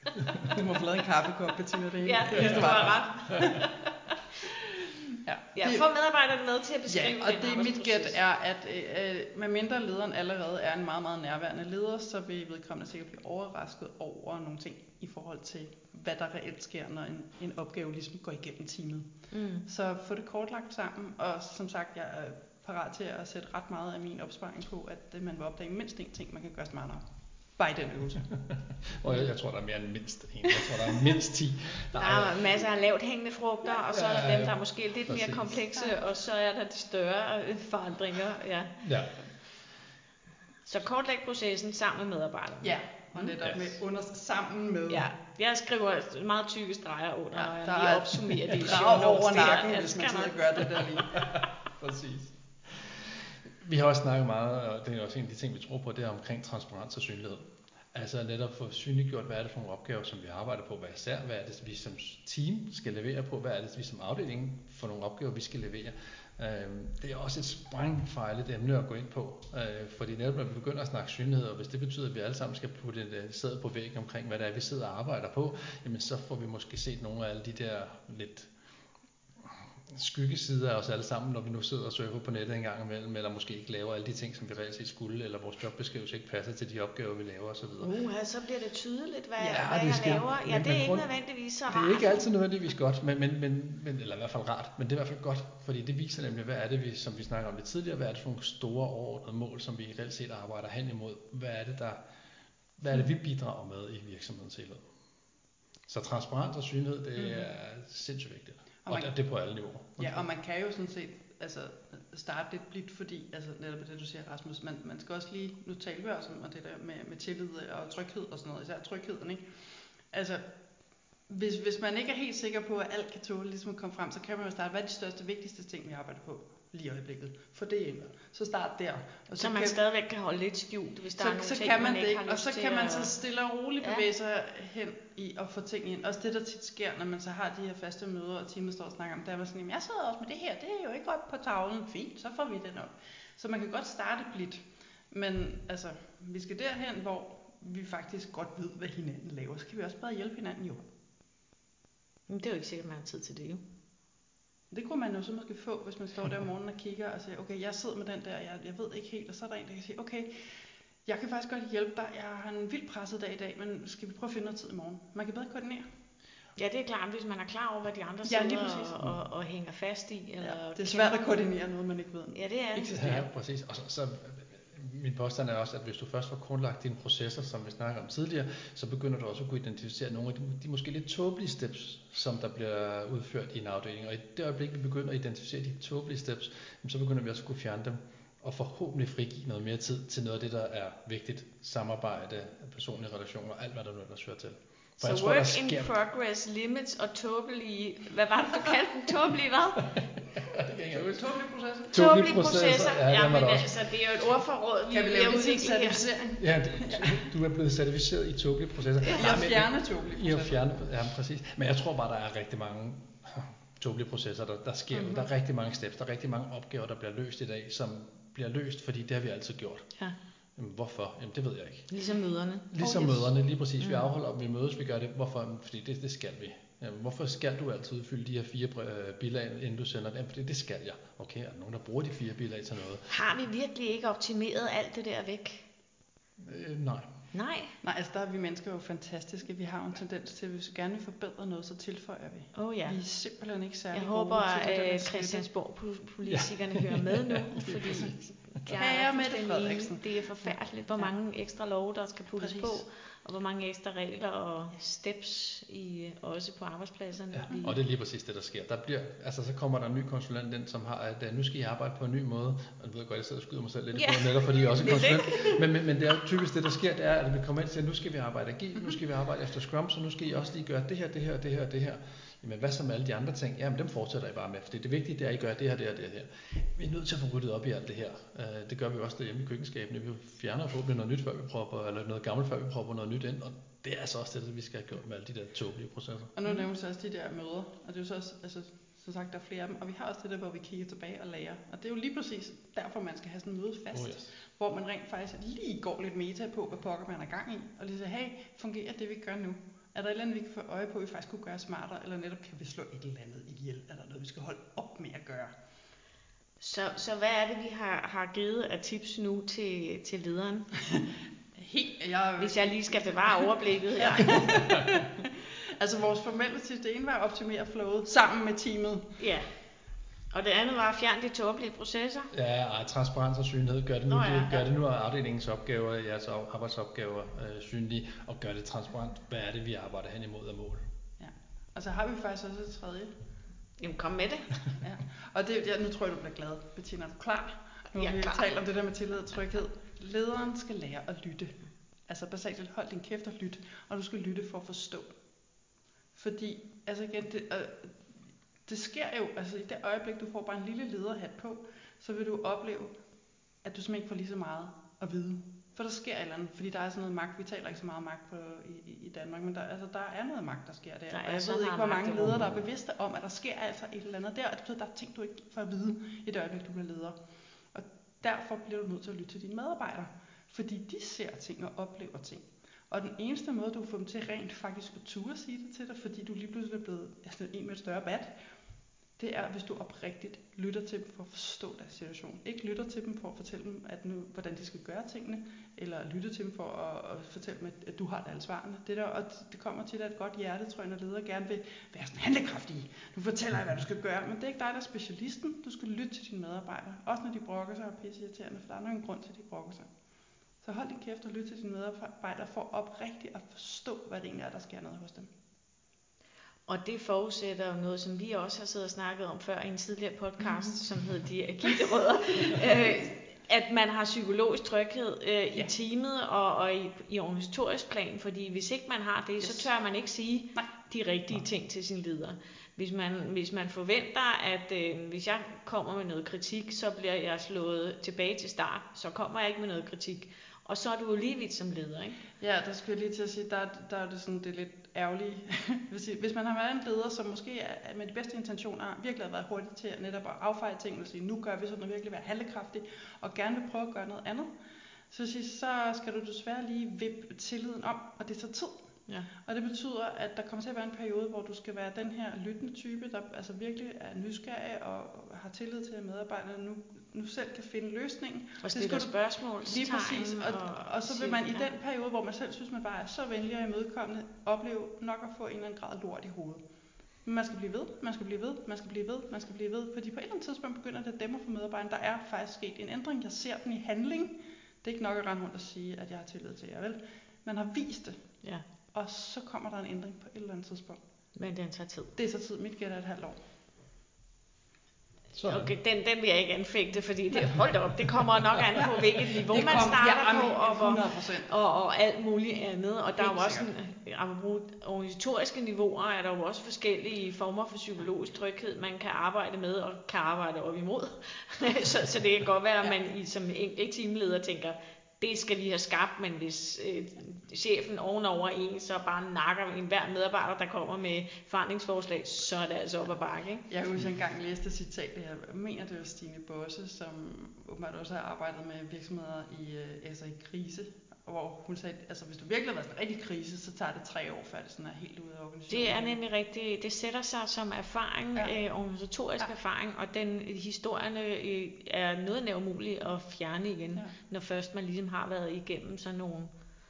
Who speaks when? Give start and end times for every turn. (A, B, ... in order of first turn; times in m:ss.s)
0:00.4-0:03.6 A
0:02.0-0:04.2 B
0:02.3-0:02.7 C
0:05.1-0:05.8 A
0:05.6-0:08.2 B
0:06.9-0:19.1 A
0:19.3-0:19.6 B
0:19.6-0:27.0 A
0:27.6-0:28.3 A
0:28.4-0:32.6 C
0:32.0-0:38.8 B
0:33.7-0:35.6 C
0:38.8-0:39.2 C
0:40.6-0:43.3 B
0:42.6-0:45.1 A
0:43.4-0:43.8 C
0:44.9-0:50.7 B
0:47.3-0:51.2 A
0:51.2-1:18.5 C
1:19.4-1:27.9 C
1:27.8-1:32.2 B
1:29.4-1:31.1 C
1:31.7-1:42.0 C
1:42.8-1:44.8 C
1:45.9-1:50.3 C
1:47.2-1:47.4 A
1:48.8-1:49.1 A
1:50.0-1:59.4 A
2:00.1-2:00.4 A
2:01.3-2:09.8 A
2:09.3-2:13.1 B
2:11.2-2:30.9 A
2:32.3-2:33.6 B
2:34.7-2:40.4 A
2:41.0-2:45.9 A
2:46.6-2:51.3 B
2:48.2-2:49.2 A
2:50.4-2:53.2 A
2:52.3-2:53.2 B
2:53.0-3:15.9 C
3:15.0-3:19.9 B
3:20.0-3:21.3 C
3:20.9-3:22.0 A
3:21.9-3:23.8 C
3:21.9-3:26.0 B
3:24.9-3:27.3 A
3:26.4-3:39.9 C
3:29.0-3:30.6 A
3:34.9-3:35.3 A
3:40.6-3:41.9 C
3:41.9-3:43.3 B
3:42.7-3:53.1 C
3:43.8-3:44.0 B
3:53.1-3:55.6 B
3:56.4-3:57.1 C
3:57.3-3:57.7 B
3:57.8-4:05.5 A
4:02.5-4:03.0 B
4:03.9-4:17.8 B
4:06.2-4:08.0 C
4:08.6-4:11.1 A
4:12.3-4:12.8 A
4:17.3-4:46.3 C
4:24.0-4:25.6 B
4:46.4-5:05.5 A
4:53.9-4:54.3 C
5:06.6-5:10.7 B
5:11.6-5:19.2 A
5:12.4-5:14.5 B
5:19.2-5:19.5 B
5:20.3-5:22.3 B
5:22.3-5:30.8 C
5:24.1-5:24.6 B
5:31.2-5:33.1 A
5:33.8-5:34.6 B
5:34.8-5:41.6 A
5:37.9-5:38.4 B
5:42.1-5:45.2 A
5:46.1-5:47.9 A
5:48.6-5:52.9 A
5:53.6-6:07.2 A
6:01.1-6:02.6 B
6:02.2-6:02.6 C
6:07.7-6:18.3 A
6:19.2-6:39.9 A
6:40.6-6:45.3 A
6:46.7-7:12.2 B
6:50.4-6:50.8 A
6:59.4-6:59.7 A
7:12.4-7:24.5 A
7:25.1-7:28.8 A
7:29.4-7:46.6 A
7:38.6-7:41.6 B
7:47.2-7:58.2 A
7:58.9-8:01.0 A
8:01.4-8:02.1 B
8:02.2-8:03.4 A
8:05.3-8:05.7 C
8:05.4-8:33.6 B
8:09.3-8:11.5 A
8:13.2-8:13.7 A
8:33.7-8:46.2 A
8:45.7-8:56.5 B
8:48.4-8:48.6 A